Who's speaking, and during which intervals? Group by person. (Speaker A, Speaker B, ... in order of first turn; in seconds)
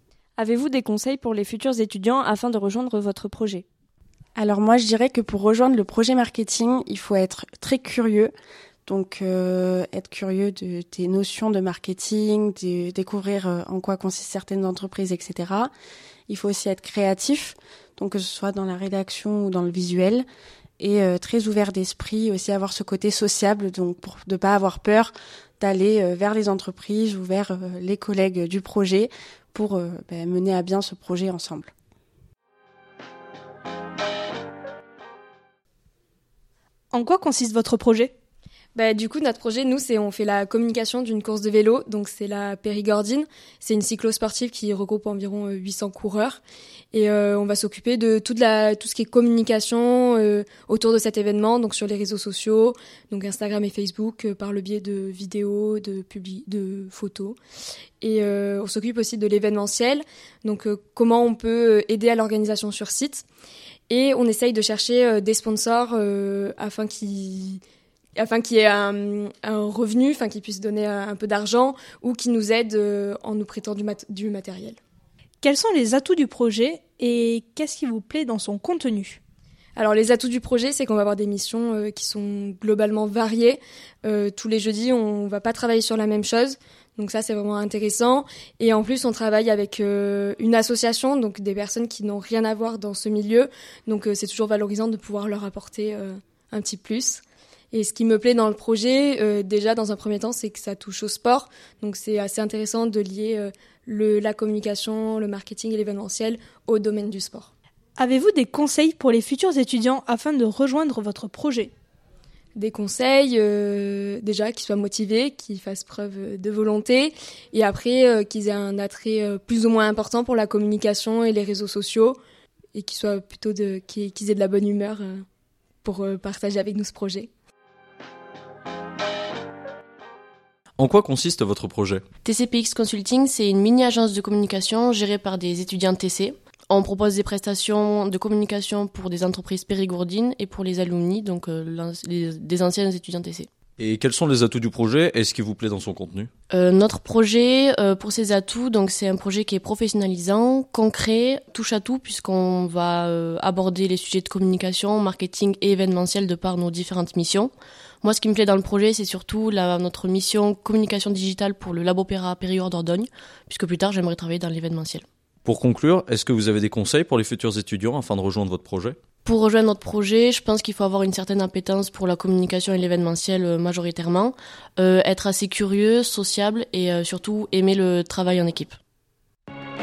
Speaker A: 0.4-3.6
Speaker B: 4.3-8.3, 8.8-15.7, 16.3-20.2, 20.8-31.7
Speaker C: 36.9-38.1, 75.4-79.2, 108.0-111.7
Speaker D: 38.7-46.4, 46.9-57.4, 58.0-63.2, 63.9-67.6, 68.2-74.8, 79.8-97.2, 97.7-107.5, 112.5-122.2, 122.7-125.2, 125.8-127.3
Speaker E: 130.8-132.0, 143.8-146.3, 165.4-169.0
Speaker F: 132.2-143.5, 146.5-157.5, 158.0-165.0, 169.2-178.8